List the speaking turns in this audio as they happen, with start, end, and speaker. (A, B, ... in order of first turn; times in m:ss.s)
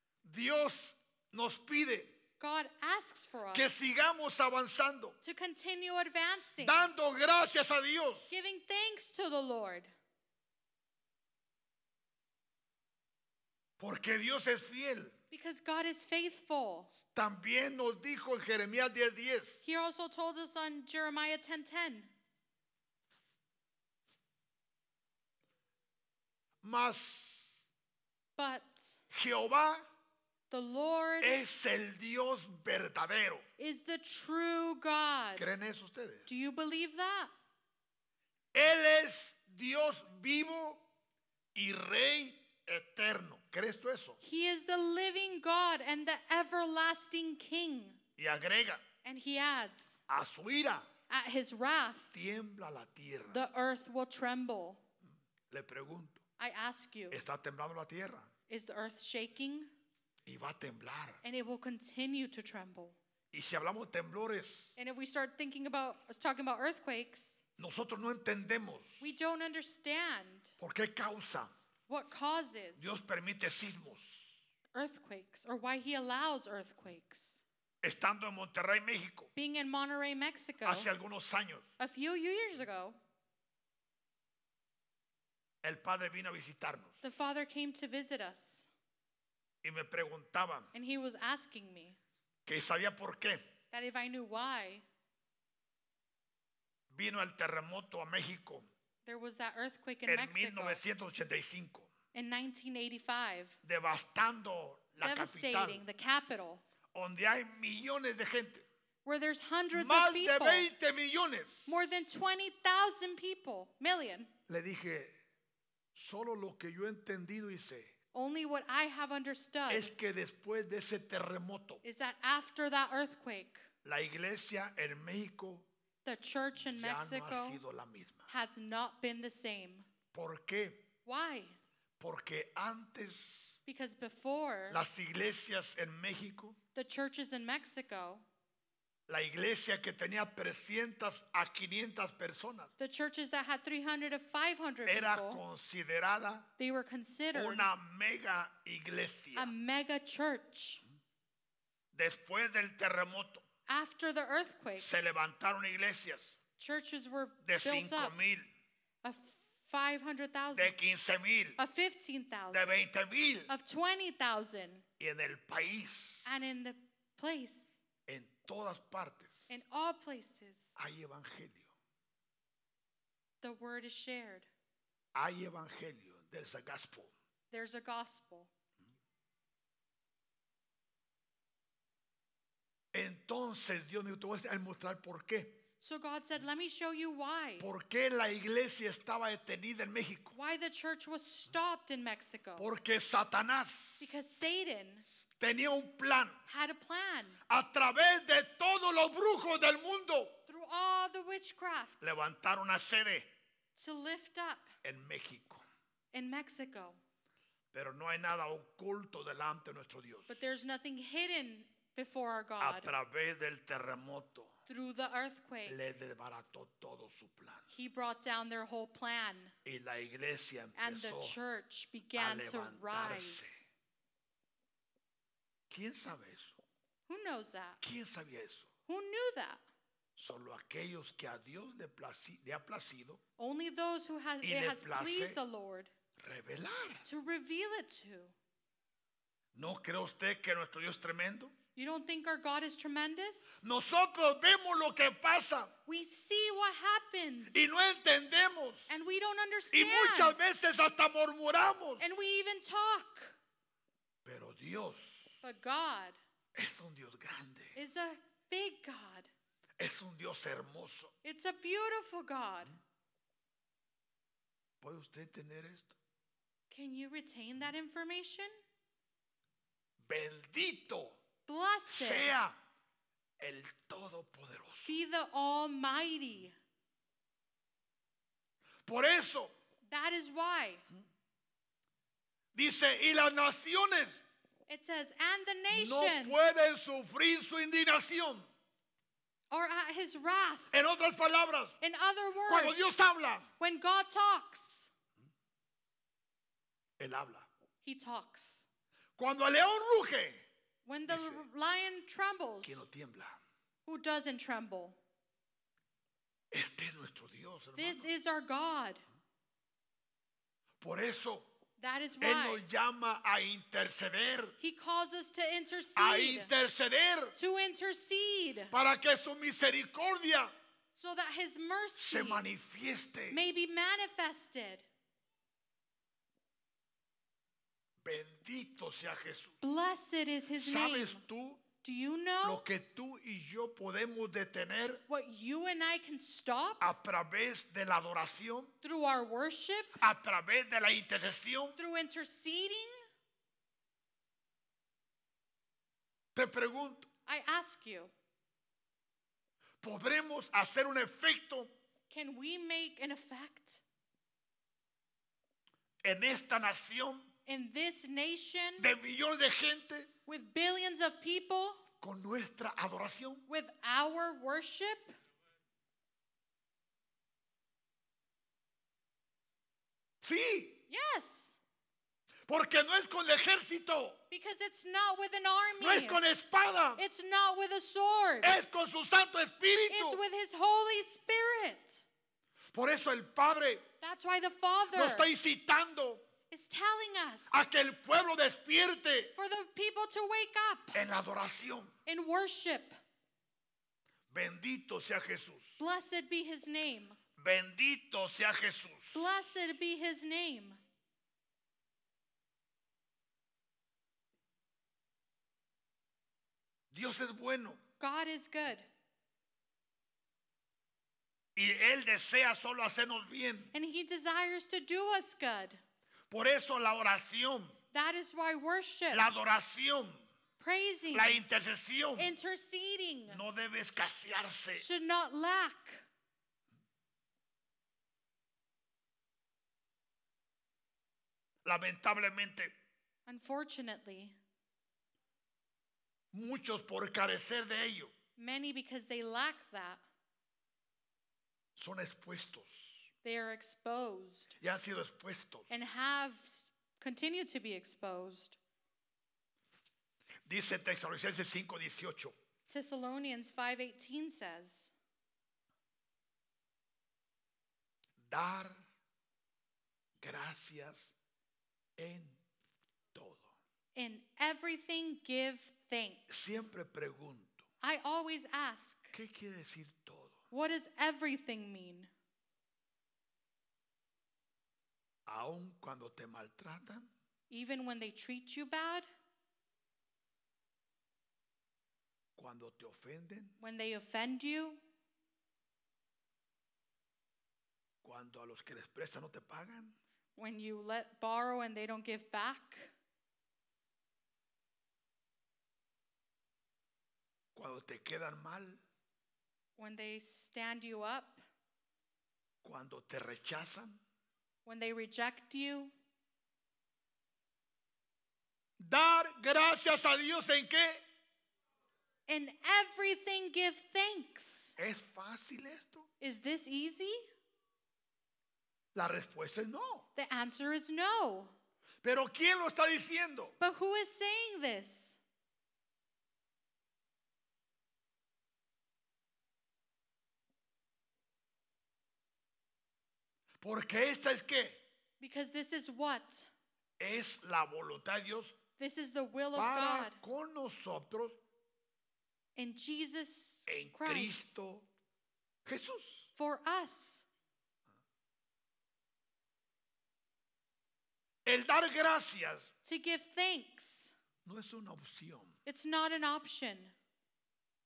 0:00.2-0:02.1 A
0:02.4-0:03.7 B
0:03.5-0:05.2 A
0:05.2-0:06.9 B
0:06.6-0:08.3 A
0:08.3-0:09.9 B
0:13.8-0:15.2 A
0:15.3-0:16.9 B
0:17.1-0:19.6 A
0:19.6-0:22.1 B
0:26.6-0:27.6 A
0:28.4-0:29.0 B
0:29.1-0:29.8 A
0:30.5-0:31.4 B
0:31.2-0:33.4 A
0:33.6-0:35.5 B
0:35.4-0:36.3 A
0:36.3-0:37.3 B
0:38.5-0:40.8 A
0:41.6-0:44.2 A
0:44.2-0:48.0 B
0:48.2-0:48.8 A
0:49.0-0:50.0 B
0:50.1-0:50.9 A
0:51.1-0:52.1 B
0:52.1-0:53.5 A
0:53.3-0:54.8 B
0:55.5-0:56.2 A
0:56.4-0:57.2 B
0:57.1-0:58.3 A
0:58.5-0:59.7 B
1:00.3-1:01.2 A
1:01.2-1:03.0 B
1:03.3-1:04.7 A
1:04.8-1:07.4 B
1:07.6-1:09.0 A
1:09.0-1:10.6 B
1:10.6-1:11.5 A
1:11.9-1:13.0 B
1:12.8-1:14.4 A
1:14.8-1:17.4 B
1:17.8-1:19.3 A
1:19.4-1:20.9 B
1:20.6-1:21.7 A
1:21.8-1:23.0 B
1:25.6-1:27.0 A
1:27.0-1:28.7 B
1:29.6-1:30.7 A
1:30.7-1:32.0 B
1:32.5-1:33.5 A
1:33.7-1:34.8 B
1:36.9-1:38.7 A
1:39.0-1:40.8 B
1:40.1-1:41.9 A
1:42.1-1:43.6 B
1:43.6-1:45.8 A
1:45.0-1:46.6 B
1:46.9-1:48.7 A
1:49.0-1:50.7 B
1:49.7-1:51.8 A
1:51.7-1:54.3 B
1:54.5-1:55.1 A
1:56.0-1:57.9 A
1:58.1-1:59.9 B
1:59.7-2:01.8 A
2:01.8-2:03.7 B
2:03.8-2:05.7 A
2:06.0-2:07.6 B
2:06.6-2:08.3 A
2:08.3-2:09.9 B
2:10.1-2:10.8 A
2:11.1-2:11.6 B
2:12.0-2:13.6 A
2:13.7-2:14.8 B
2:14.7-2:16.6 A
2:16.7-2:18.2 B
2:19.1-2:22.7 A
2:22.8-2:25.4 B
2:24.9-2:26.5 A
2:26.6-2:27.7 B
2:27.3-2:29.5 A
2:29.4-2:30.8 B
2:31.9-2:33.4 A
2:33.7-2:34.9 B
2:34.8-2:36.4 A
2:36.6-2:38.2 B
2:37.4-2:38.5 A
2:39.0-2:40.7 B
2:40.5-2:41.6 A
2:41.6-2:42.7 B
2:42.5-2:43.5 A
2:43.5-2:44.8 B
2:45.0-2:46.3 A
2:46.2-2:47.8 B
2:48.1-2:49.5 A
2:49.5-2:50.8 B
2:50.8-2:51.7 A
2:53.4-2:54.5 B
2:55.1-2:57.1 A
2:57.5-2:58.5 B
3:02.9-3:05.6 A
3:05.8-3:07.7 B
3:07.6-3:10.4 A
3:10.3-3:12.7 B
3:12.6-3:14.1 A
3:14.0-3:15.1 B
3:15.4-3:16.4 A
3:16.5-3:17.4 B
3:17.5-3:20.4 A
3:20.5-3:22.2 B
3:22.0-3:23.3 A
3:23.8-3:24.7 B
3:24.8-3:25.6 A
3:26.1-3:27.0 B
3:27.7-3:30.4 A
3:30.3-3:32.9 B
3:32.6-3:34.5 A
3:34.7-3:35.8 B
3:35.7-3:37.7 A
3:37.7-3:39.5 B
3:39.6-3:41.4 A
3:40.8-3:43.7 B
3:42.2-3:43.6 A
3:45.7-3:46.6 A
3:47.1-3:47.8 B
3:47.8-3:48.7 A
3:48.9-3:49.6 B
3:50.2-3:53.2 A
3:53.4-3:55.9 B
3:54.4-3:55.4 A
3:56.2-3:57.1 A
3:57.0-3:58.3 B
3:59.5-4:01.5 A
4:01.8-4:03.6 B
4:03.6-4:05.7 A
4:05.9-4:07.6 B
4:07.5-4:08.9 A
4:08.9-4:10.4 B
4:09.7-4:12.0 A
4:12.0-4:13.4 B
4:14.2-4:15.3 A
4:15.4-4:16.2 B
4:16.6-4:17.8 A
4:17.8-4:19.3 B
4:19.8-4:21.1 A
4:21.2-4:22.7 B
4:24.8-4:26.0 A
4:26.7-4:28.5 B
4:30.0-4:31.2 A
4:31.5-4:32.3 B
4:31.9-4:32.6 A
4:33.4-4:35.0 A
4:34.8-4:36.6 B
4:38.8-4:39.5 A
4:39.9-4:40.8 B
4:42.5-4:44.2 A
4:44.7-4:46.6 B
4:45.7-4:48.5 A
4:49.5-4:50.8 B
4:50.7-4:51.8 A
4:51.8-4:52.9 B
4:52.5-4:53.5 A
4:53.6-4:54.9 B
4:57.0-4:57.5 A
4:57.8-4:58.7 B
4:59.2-5:00.4 A
5:00.8-5:02.8 B
5:01.1-5:01.4 A
5:02.6-5:03.4 A
5:03.8-5:05.0 B
5:06.5-5:08.1 A
5:07.8-5:09.0 B
5:10.8-5:11.5 A
5:11.8-5:12.6 B
5:12.2-5:14.6 A
5:14.6-5:16.5 B
5:16.0-5:17.4 A
5:17.4-5:18.7 B
5:18.7-5:20.5 A
5:20.9-5:22.4 B
5:22.0-5:23.4 A
5:23.3-5:24.8 B
5:28.0-5:29.6 A
5:29.6-5:31.2 B
5:30.6-5:31.6 A
5:31.8-5:32.6 B
5:32.4-5:35.0 A
5:35.1-5:36.9 B
5:36.8-5:38.7 A
5:38.8-5:40.0 B
5:40.0-5:41.8 A
5:41.8-5:43.0 B
5:46.4-5:47.1 A
5:47.3-5:48.1 B
5:49.8-5:51.7 A
5:52.1-5:53.8 B
5:56.0-5:57.3 A
5:57.5-5:58.9 B
5:58.8-6:00.1 A
6:00.3-6:01.8 B
6:02.0-6:03.4 A
6:03.5-6:05.1 B
6:10.2-6:10.8 A
6:10.9-6:11.6 B
6:12.5-6:14.2 A
6:14.3-6:16.2 B
6:15.8-6:17.0 A
6:17.0-6:18.6 B
6:18.4-6:20.2 A
6:19.9-6:22.0 B
6:22.7-6:23.8 A
6:24.0-6:25.3 B
6:24.9-6:26.2 A
6:26.5-6:27.6 B
6:27.5-6:29.3 A
6:29.4-6:31.0 B
6:30.9-6:31.9 A
6:32.1-6:32.9 B
6:34.3-6:35.8 A
6:35.8-6:37.2 B
6:37.4-6:39.2 A
6:39.1-6:40.8 B
6:46.9-6:47.8 A
6:48.0-6:48.9 B
6:51.6-6:53.7 A
6:53.7-6:55.8 B
6:56.3-6:57.8 A
6:57.9-6:59.3 B
6:59.1-7:00.2 A
7:00.6-7:01.4 B
7:01.1-7:02.3 A
7:02.2-7:03.4 B
7:03.3-7:04.9 A
7:04.8-7:06.0 B
7:11.6-7:12.7 A
7:13.3-7:14.4 B
7:16.3-7:18.1 A
7:18.4-7:20.0 B
7:21.8-7:23.1 A
7:23.2-7:24.6 B
7:24.6-7:25.7 A
7:25.7-7:28.6 B
7:30.5-7:32.3 A
7:32.7-7:34.9 B
7:38.2-7:38.8 A
7:40.2-7:41.2 A
7:42.0-7:42.4 A
7:43.1-7:43.5 A
7:44.0-7:46.7 B
7:46.3-7:47.6 A
7:47.8-7:49.1 B
7:49.1-7:50.4 A
7:50.5-7:52.1 B
7:55.3-7:57.1 A
7:57.5-7:59.1 B
8:02.4-8:03.6 A
8:03.6-8:04.8 B
8:08.0-8:10.0 A
8:10.4-8:12.9 B
8:17.6-8:18.8 A
8:19.8-8:21.4 B
8:22.6-8:24.0 A
8:24.7-8:25.9 B
8:28.8-8:31.0 A
8:32.3-8:34.8 B
8:34.8-8:36.1 A
8:36.2-8:37.2 B
8:38.9-8:40.1 A
8:40.2-8:41.5 B
8:42.0-8:43.6 A
8:43.6-8:45.2 B
8:53.6-8:54.8 A
8:55.2-8:56.5 B
8:57.0-8:58.6 A
8:58.8-9:00.2 B
8:59.6-9:01.4 A
9:02.6-9:04.5 B
9:03.7-9:04.9 A
9:05.6-9:06.3 A
9:06.4-9:07.3 B
9:11.4-9:12.7 A
9:12.8-9:14.1 B
9:14.4-9:15.6 A
9:15.7-9:16.9 B